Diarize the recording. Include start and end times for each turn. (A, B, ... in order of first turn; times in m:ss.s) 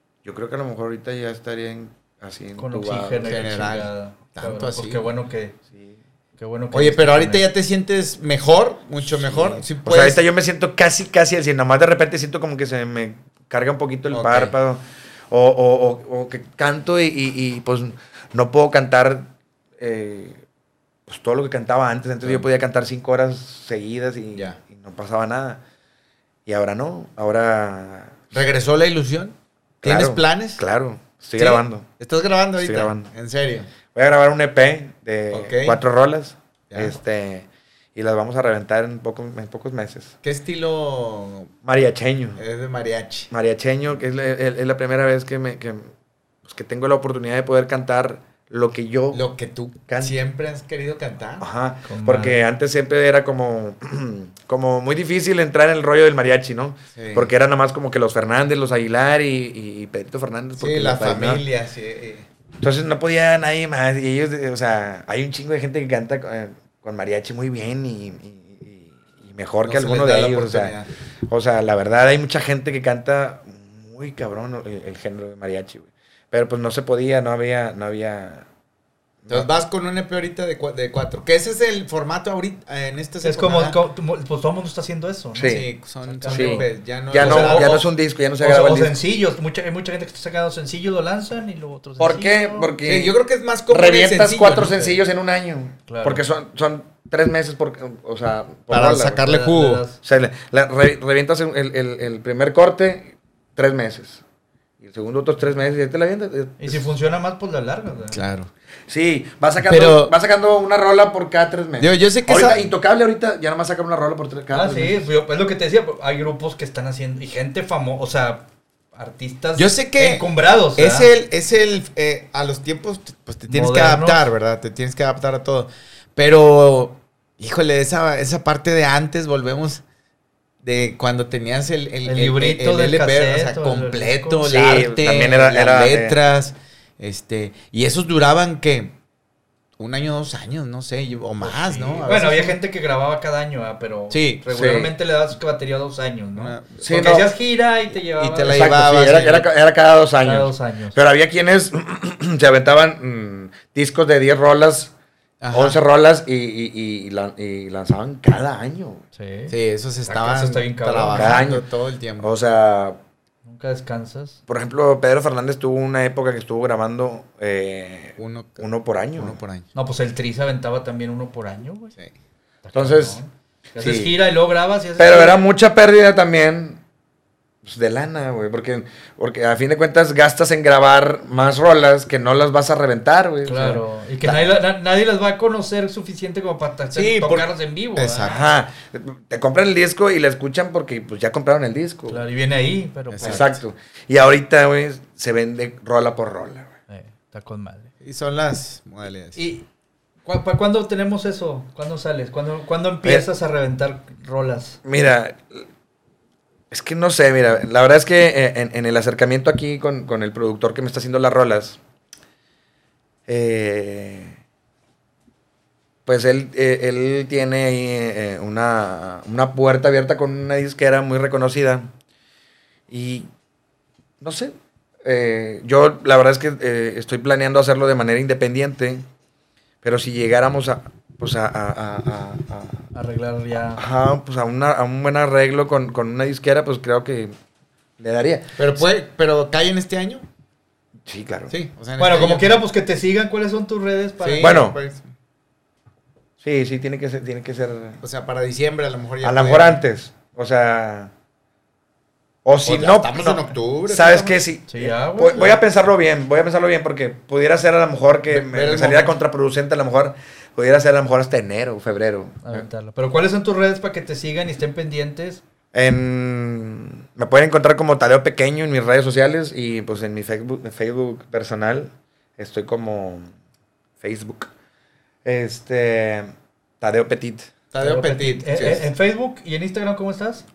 0:00.2-0:03.4 A
0:02.6-0:05.6 B
0:03.2-0:05.0 C
0:05.7-0:06.0 A
0:06.4-0:07.4 B
0:06.7-0:10.2 C
0:09.2-0:20.4 A
0:14.1-0:14.5 C
0:21.1-0:25.6 A
0:26.4-0:28.3 A
0:28.3-0:30.6 C
0:29.8-0:31.9 A
0:31.4-0:33.7 C
0:32.6-0:33.1 A
0:33.9-0:40.1 A
0:35.3-0:35.8 C
0:36.7-0:37.0 C
0:40.2-0:41.5 C
0:41.6-0:42.4 A
0:42.4-0:43.3 C
0:43.3-0:45.9 A
0:46.4-0:49.2 A
0:49.1-0:51.5 C
0:49.9-0:50.2 A
0:51.4-1:01.4 A
0:51.9-0:52.4 B
0:56.9-0:57.3 C
1:00.6-1:02.3 C
1:02.6-1:18.5 A
1:09.6-1:10.9 C
1:19.2-1:19.5 A
1:19.3-1:23.8 C
1:23.2-1:27.8 B
1:25.3-1:25.7 A
1:25.4-1:27.9 C
1:26.3-1:29.0 A
1:28.4-1:32.7 B
1:32.0-1:33.1 A
1:32.8-1:35.0 C
1:33.7-1:39.2 A
1:35.9-1:36.2 B
1:38.7-1:39.8 C
1:39.2-1:40.0 B
1:40.0-1:44.2 A
1:44.8-1:46.9 A
1:46.6-1:48.2 B
1:48.1-1:48.5 C
1:48.9-1:55.1 A
1:49.6-1:50.1 C
1:51.8-1:52.7 C
1:54.5-2:01.1 B
1:59.6-2:09.8 C
2:03.5-2:04.2 B
2:10.6-2:19.0 C
2:12.0-2:14.4 B
2:14.4-2:16.2 A
2:19.8-2:22.6 C
2:21.4-2:28.7 B
2:24.1-2:24.4 C
2:24.5-2:24.9 A
2:26.3-2:27.2 C
2:26.8-2:27.3 A
2:28.2-2:29.5 C
2:28.5-2:34.9 A
2:30.2-2:31.0 B
2:35.4-2:35.8 C
2:35.5-2:39.0 A
2:39.1-2:39.5 B
2:39.5-2:42.3 C
2:40.1-2:41.5 B
2:41.1-2:41.6 A
2:42.2-2:43.0 A
2:43.4-2:44.4 B
2:44.5-2:49.4 A
2:48.2-2:49.7 C
2:49.7-2:51.9 B
2:52.6-2:55.4 B
2:52.7-2:53.2 A
2:53.7-2:54.1 A
2:55.0-2:56.8 A
2:57.6-3:04.6 A
3:03.5-3:08.4 B
3:06.9-3:08.4 C
3:08.2-3:12.2 A
3:12.1-3:13.5 B
3:13.1-3:13.5 C
3:13.2-3:16.7 A
3:16.9-3:17.9 B
3:18.0-3:19.4 C
3:19.4-3:19.6 B
3:20.2-3:24.8 B
3:24.8-3:25.7 A
3:26.7-3:31.8 A
3:33.3-3:34.4 A
3:36.0-3:41.9 A
3:42.9-3:43.3 A
3:44.2-3:49.0 A
3:49.8-3:52.9 A
3:52.9-3:53.8 B
3:53.7-3:57.3 A
3:58.0-3:58.8 A
3:58.6-4:00.2 C
4:01.0-4:01.5 A
4:01.5-4:02.6 C
4:02.0-4:04.6 B
4:04.2-4:05.1 C
4:04.4-4:04.8 A
4:06.4-4:08.0 A
4:08.0-4:09.8 C
4:09.2-4:11.1 A
4:12.4-4:22.6 A
4:12.6-4:14.4 C
4:14.7-4:15.6 B
4:18.3-4:19.1 C
4:22.4-4:25.4 B
4:25.7-4:33.3 A
4:34.0-4:34.5 A
4:35.2-4:37.5 A
4:37.7-4:38.8 C
4:37.8-4:40.4 B